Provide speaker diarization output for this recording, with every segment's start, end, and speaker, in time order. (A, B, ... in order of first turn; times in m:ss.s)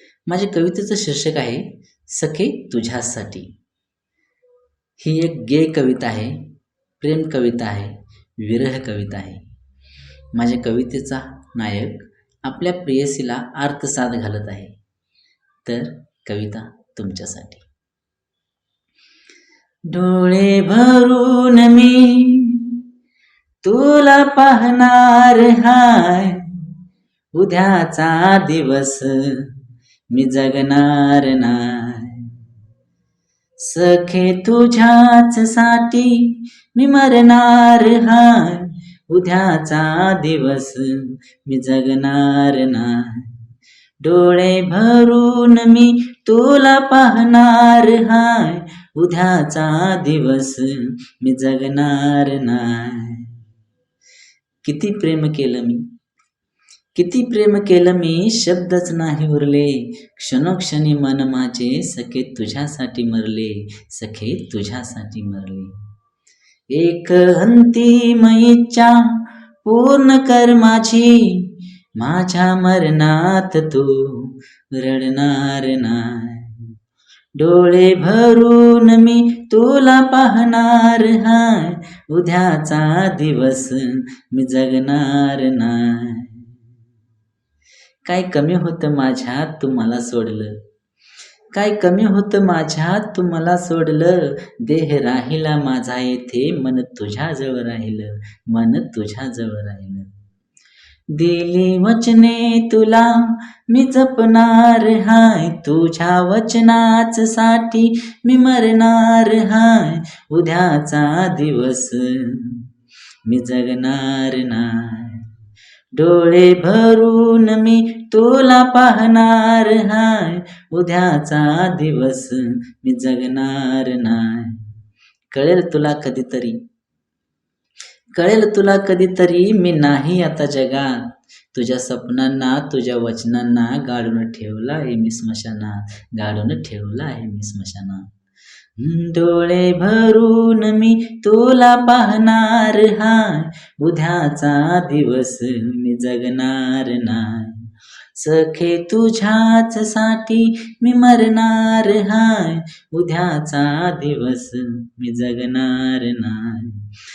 0:00.3-0:03.5 A
0:05.0-0:09.5 A
0:10.3-0:14.8 A
0:15.6-0:17.6 A
0:19.9-0:22.8 A
0:23.6-0:26.7 A
0:27.4-0:29.5 A
0:30.1-0:32.3 A
0:33.6-0:43.4 A
0:44.0-0:53.4 A
0:54.6-0:55.8 A
0:57.0-1:05.8 A
1:06.7-1:16.7 A
1:17.4-1:26.4 A
1:28.0-1:30.6 A
1:31.5-1:40.1 A
1:41.1-1:52.7 A
1:53.3-1:55.3 A
1:56.0-2:04.7 A
2:05.3-2:06.6 A
2:08.2-2:18.1 A
2:18.8-2:36.9 A